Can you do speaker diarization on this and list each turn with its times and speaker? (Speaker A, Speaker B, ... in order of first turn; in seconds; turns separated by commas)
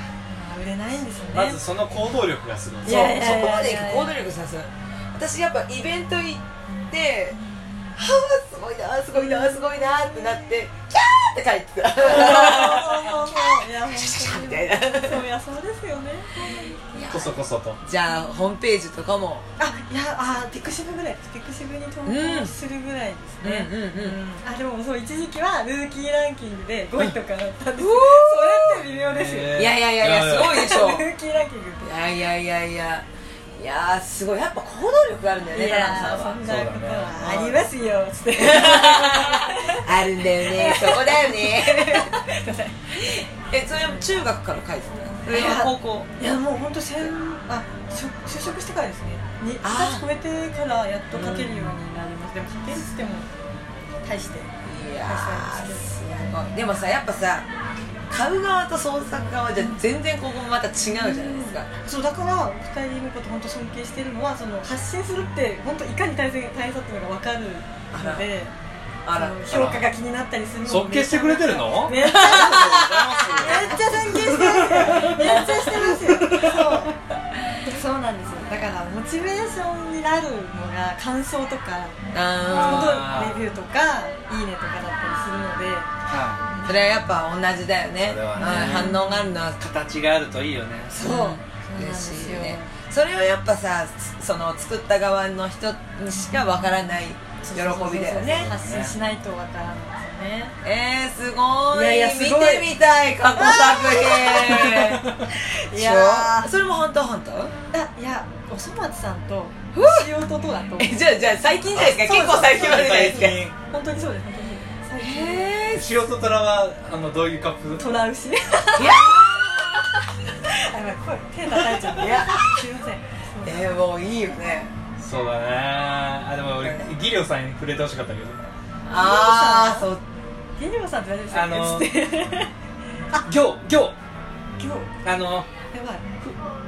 Speaker A: 0.3-1.6, Speaker B: 1.3-3.1, Speaker A: 2.8-4.2, Speaker C: 2.8-7.4, Speaker A: 6.7-8.0, Speaker C: 8.0-15.2, Speaker A: 9.1-10.5, Speaker A: 12.0-16.8, Speaker C: 16.8-19.5, Speaker B: 17.1-17.8, Speaker A: 19.6-32.0, Speaker C: 22.1-22.5, Speaker C: 23.4-24.2, Speaker C: 27.8-28.9, Speaker B: 29.0-30.6, Speaker C: 29.5-31.1, Speaker C: 31.8-36.4, Speaker A: 35.5-44.1, Speaker B: 36.4-37.6, Speaker C: 37.2-37.5, Speaker C: 38.4-42.1, Speaker C: 43.0-46.1, Speaker A: 45.2-53.3, Speaker C: 49.6-50.1, Speaker C: 51.1-51.6, Speaker A: 54.0-56.3, Speaker C: 54.6-57.5, Speaker C: 58.1-61.7, Speaker A: 60.9-68.5, Speaker C: 67.9-68.3, Speaker C: 69.0-69.4, Speaker A: 69.1-76.9, Speaker B: 69.5-69.9, Speaker B: 70.7-75.4, Speaker C: 72.0-73.8, Speaker C: 76.2-76.7, Speaker A: 77.6-85.9, Speaker C: 82.1-83.1, Speaker B: 82.5-83.4, Speaker B: 86.1-86.4, Speaker C: 86.6-89.6, Speaker B: 88.0-89.0, Speaker A: 88.4-89.3, Speaker B: 89.6-91.0, Speaker C: 90.9-98.5, Speaker A: 91.0-92.7, Speaker A: 97.4-100.5, Speaker B: 98.4-98.9, Speaker C: 100.6-105.1, Speaker A: 101.7-102.7, Speaker A: 103.4-106.5, Speaker B: 104.5-105.2, Speaker C: 105.7-107.5, Speaker A: 107.7-115.5, Speaker C: 109.7-110.1, Speaker C: 110.8-113.4, Speaker B: 111.7-113.5, Speaker C: 115.0-116.0, Speaker B: 115.7-117.8, Speaker A: 117.8-123.8, Speaker C: 118.8-119.9, Speaker C: 121.8-122.6, Speaker C: 123.4-124.7, Speaker B: 125.0-128.4, Speaker C: 126.6-126.9, Speaker C: 128.9-130.0, Speaker A: 128.9-129.9, Speaker A: 130.6-132.5, Speaker B: 131.3-132.0, Speaker B: 133.2-133.9, Speaker A: 134.6-134.9, Speaker B: 135.0-135.5, Speaker A: 135.7-136.0